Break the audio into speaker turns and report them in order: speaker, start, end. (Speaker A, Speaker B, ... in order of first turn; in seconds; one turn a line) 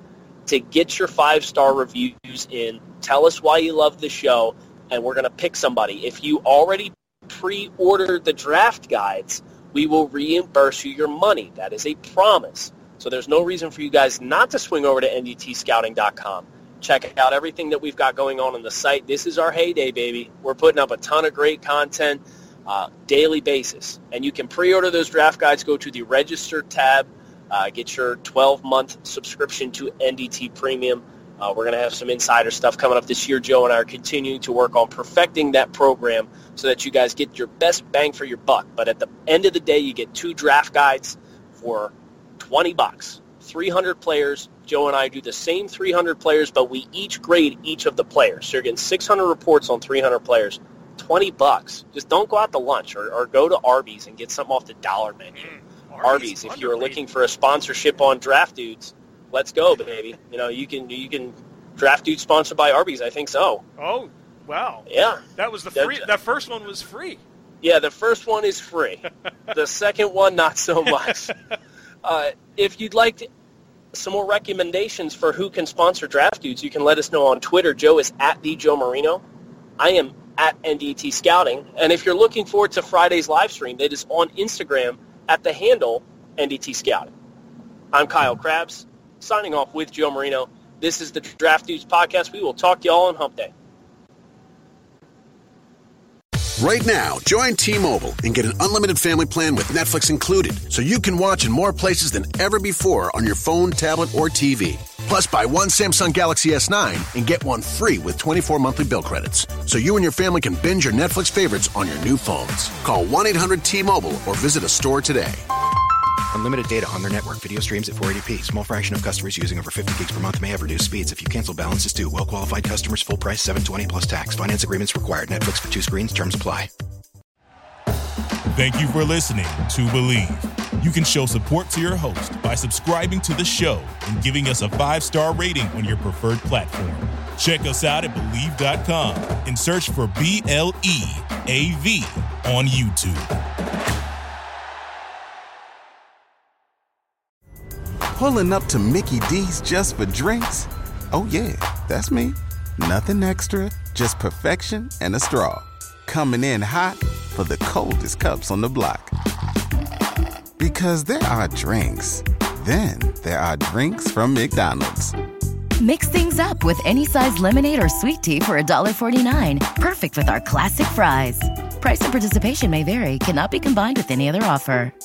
Speaker A: 0.5-55.5
Speaker B: 55.3-57.0
Speaker A: 56.0-63.6
Speaker B: 63.8-67.2
Speaker A: 64.9-65.2
Speaker A: 65.7-66.0
Speaker A: 67.6-71.3
Speaker A: 72.0-73.3
Speaker A: 73.9-79.2
Speaker A: 79.8-87.1
Speaker A: 87.9-93.5
Speaker C: 96.6-115.4
Speaker D: 116.3-126.7
Speaker E: 128.5-143.3
Speaker F: 148.1-159.1
Speaker F: 160.6-165.1
Speaker G: 165.8-174.9